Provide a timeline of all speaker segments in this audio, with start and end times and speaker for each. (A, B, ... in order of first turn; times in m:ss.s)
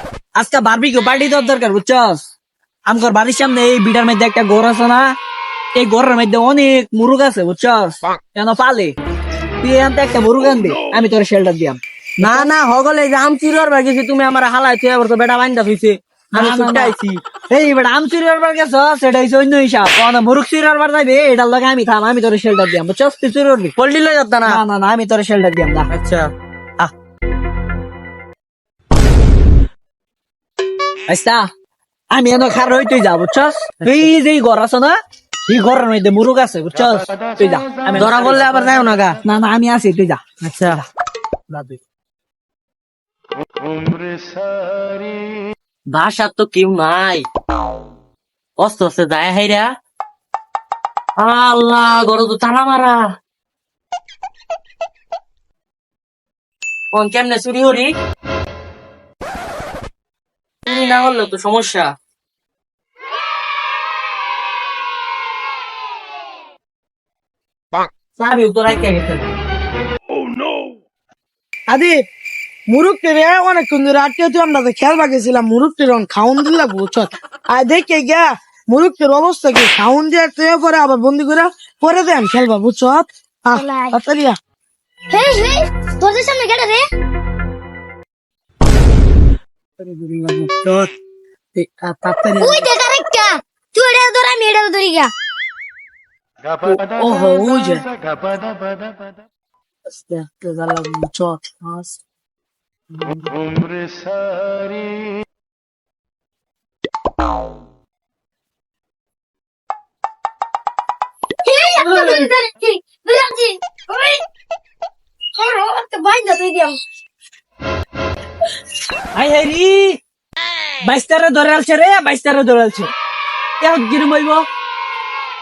0:00.4-0:02.2 A
0:02.9-0:05.1 A
0:05.8-0:09.0 A
0:09.6-0:12.4 A
0:12.2-0:17.2 B
0:16.4-0:17.0 A
0:17.5-0:23.8 A
0:23.8-0:24.6 B
0:24.5-0:25.9 A
0:25.9-0:26.3 B
0:31.1-0:31.5 A
0:32.1-0:38.5 A
0:33.8-0:34.1 B
0:37.9-0:39.2 B
0:39.2-0:40.8 A
0:40.4-0:40.8 B
0:41.5-0:41.8 A
0:45.9-0:47.3 B
0:48.6-0:49.8 B
0:51.2-0:53.2 B
0:56.9-0:58.0 B
1:00.7-1:01.9 B
1:08.2-1:09.3 B
1:11.7-1:12.0 C
1:12.7-1:24.4 C
1:23.5-1:24.0 D
1:25.1-1:26.8 D
1:29.8-1:30.9 A
1:31.6-1:32.6 A
1:32.4-1:35.1 D
1:36.9-1:37.8 A
1:37.1-1:37.7 C
1:40.0-1:41.9 A
1:51.4-1:54.2 D
1:51.8-1:52.2 A
1:55.4-1:56.8 D
1:59.1-2:00.0 A
2:00.8-2:02.9 A
2:03.6-2:04.5 A